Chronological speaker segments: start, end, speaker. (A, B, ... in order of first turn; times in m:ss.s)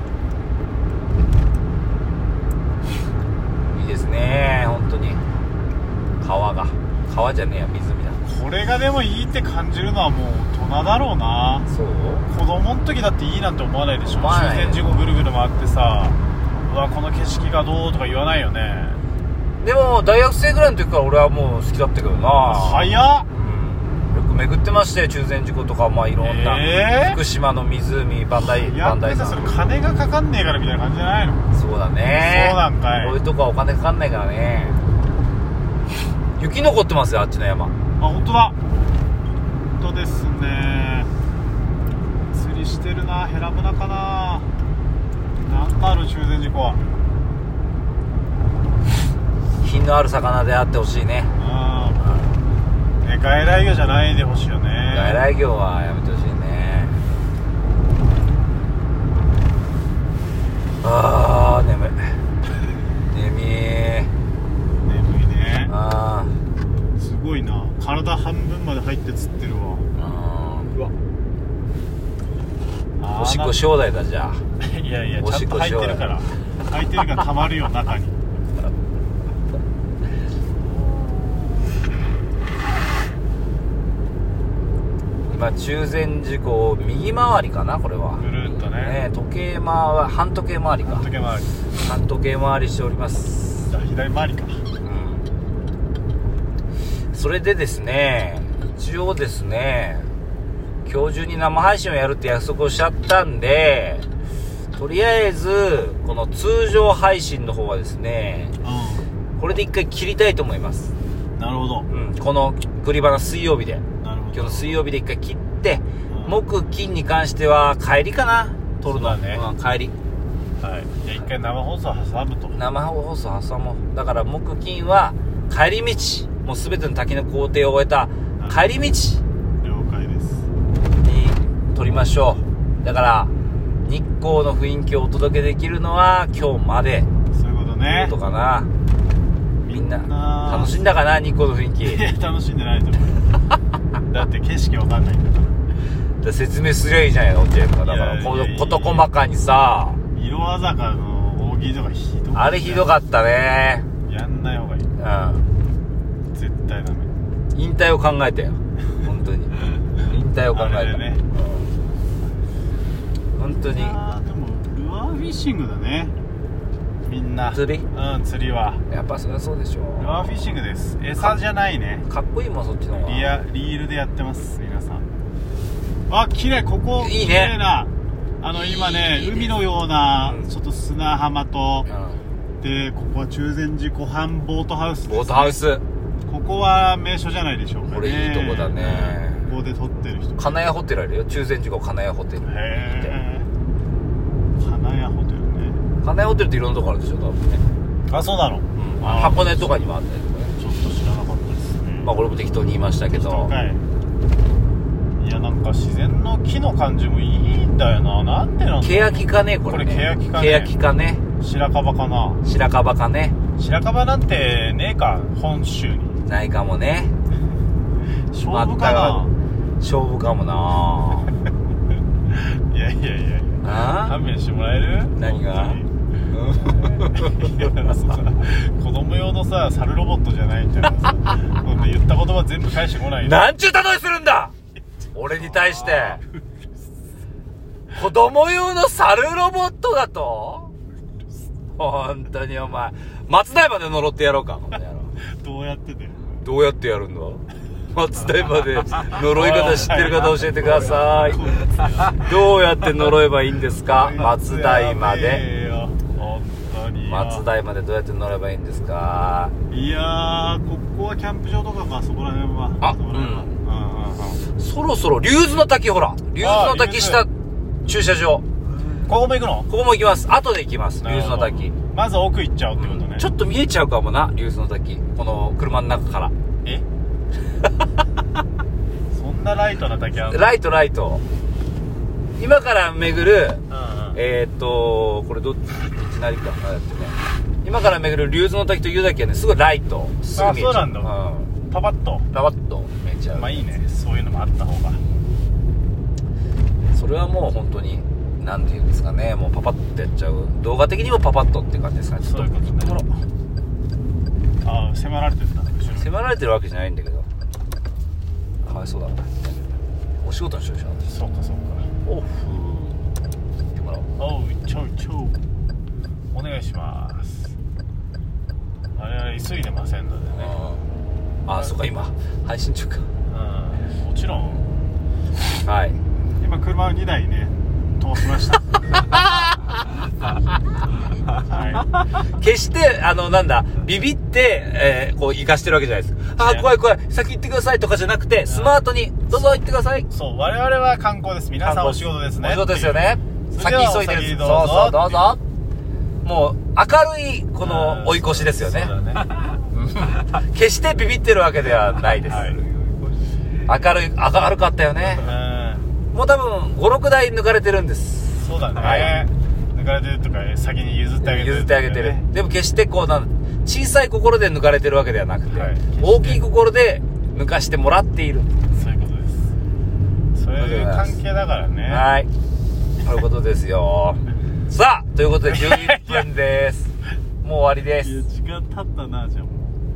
0:03.7-0:05.2 A
0:06.2-0:08.2 A
0:08.2-0:11.7 B
0:11.7-0:12.2 A
0:12.3-0:19.0 B
0:14.0-0:14.8 A
0:19.6-0:29.5 A
0:22.4-0:23.3 B
0:26.2-0:27.2 B
0:28.3-0:31.4 B
0:31.5-0:34.8 A
0:32.1-0:33.2 B
0:36.4-0:37.7 A
0:38.0-0:38.5 B
0:39.7-0:41.1 B
0:42.3-0:44.5 B
0:45.4-0:46.8 B
0:49.6-0:51.3 A
0:51.4-0:52.3 B
0:53.0-0:55.2 B
0:54.9-0:57.0 A
1:00.8-1:02.1 A
1:03.1-1:04.1 A
1:04.8-1:05.7 B
1:05.6-1:06.4 A
1:07.0-1:09.8 B
1:09.9-1:10.8 A
1:13.0-1:13.6 B
1:13.2-1:14.4 A
1:14.6-1:18.2 B
1:15.2-1:16.1 A
1:25.3-1:31.1 A
1:28.2-1:29.0 B
1:30.8-1:31.5 B
1:31.8-1:33.7 A
1:33.6-1:34.6 B
1:34.8-1:35.2 A
1:37.1-1:40.1 A
1:40.8-1:44.0 A
1:44.7-1:48.5 A
1:48.6-1:49.0 B
1:49.4-1:50.9 A
1:51.4-1:51.9 B
1:51.9-1:59.9 A
1:54.0-1:54.8 B
1:56.1-1:56.4 B
1:58.8-1:59.4 B
2:00.6-2:02.6 B
2:02.5-2:09.2 A
2:08.4-2:08.7 B
2:09.6-2:10.5 B
2:11.0-2:13.3 A
2:13.8-2:17.1 A
2:17.3-2:18.2 B
2:17.8-2:18.7 A
2:19.6-2:20.8 B
2:19.7-2:22.0 A
2:21.8-2:23.3 B
2:24.1-2:25.6 B
2:26.2-2:30.0 A
2:27.8-2:29.1 B
2:30.1-2:33.0 B
2:32.3-2:33.8 A
2:34.0-2:34.9 B
2:35.0-2:35.4 A
2:36.3-2:37.1 B
2:37.5-2:41.7 A
2:40.5-2:41.2 B
2:43.4-2:43.9 A
2:43.6-2:46.1 B
2:47.0-2:48.8 B
2:47.5-2:47.8 A
2:48.9-2:50.4 A
2:50.0-2:52.0 B
2:52.1-2:53.3 A
2:53.0-2:55.1 B
2:56.1-3:01.9 B
2:57.0-2:57.6 A
2:58.5-2:59.6 A
3:01.9-3:02.2 A
3:02.6-3:05.6 B
3:05.1-3:05.8 A
3:06.3-3:10.6 B
3:07.8-3:09.5 A
3:10.4-3:13.1 A
3:12.4-3:13.5 B
3:14.6-3:15.8 B
3:16.0-3:17.6 A
3:18.1-3:19.7 B
3:18.8-3:20.5 A
3:20.5-3:22.1 B
3:22.0-3:23.5 A
3:23.1-3:23.8 B
3:25.2-3:30.7 B
3:28.8-3:31.2 A
3:31.4-3:32.4 B
3:32.4-3:33.4 A
3:33.6-3:36.2 B
3:36.2-3:37.1 A
3:38.3-3:39.3 B
3:38.5-3:41.3 A
3:42.3-3:45.9 B
3:43.6-3:44.2 A
3:45.2-3:47.7 A
3:46.6-3:53.5 B
3:53.2-3:54.5 A
3:55.1-3:56.2 A
3:55.5-3:56.2 B
3:57.9-4:00.7 A
4:01.8-4:05.1 A
4:05.4-4:06.4 B
4:06.4-4:15.4 A
4:09.2-4:12.3 B
4:13.8-4:17.4 B
4:17.1-4:19.5 A
4:19.7-4:24.4 B
4:22.8-4:23.6 A
4:24.5-4:27.3 A
4:26.4-4:27.2 B
4:27.8-4:28.4 A
4:29.0-4:29.7 B
4:29.7-4:31.7 A
4:31.0-4:33.3 B
4:32.8-4:36.3 A
4:39.1-4:40.6 B
4:40.3-4:41.2 A
4:42.4-4:43.6 A
4:43.7-4:44.2 B
4:44.1-4:51.5 A
4:50.3-4:51.1 B
4:51.7-4:52.3 B
4:52.3-4:53.6 A
4:53.3-4:55.0 B
4:56.9-5:03.0 A
5:02.2-5:03.1 B
5:04.6-5:06.2 B
5:05.8-5:07.3 A
5:08.6-5:09.7 A
5:10.2-5:11.0 A
5:11.0-5:11.9 B
5:12.0-5:13.0 A
5:13.7-5:14.1 A
5:14.2-5:15.4 B
5:16.3-5:17.5 B
5:19.0-5:20.6 B
5:20.3-5:20.8 A
5:21.4-5:23.0 A
5:23.3-5:24.6 B
5:25.6-5:26.0 A
5:26.3-5:29.0 B
5:28.9-5:29.6 A
5:31.4-5:31.9 B
5:32.2-5:40.1 A
5:36.4-5:36.7 B
5:38.4-5:38.8 B
5:39.3-5:45.3 B
5:41.6-5:45.4 A
5:46.2-5:48.9 A
5:47.6-5:49.3 B
5:49.7-5:52.6 A
5:52.3-5:52.6 B
5:53.6-5:55.3 A
5:55.1-5:55.8 B
5:56.1-5:59.2 A
5:58.4-6:02.2 B
6:01.2-6:08.5 A
6:05.5-6:06.4 B
6:08.7-6:09.5 B
6:10.3-6:12.1 B
6:10.6-6:11.2 A
6:11.9-6:12.3 A
6:13.0-6:16.9 A
6:15.5-6:16.3 B
6:17.4-6:18.2 A
6:18.0-6:19.7 B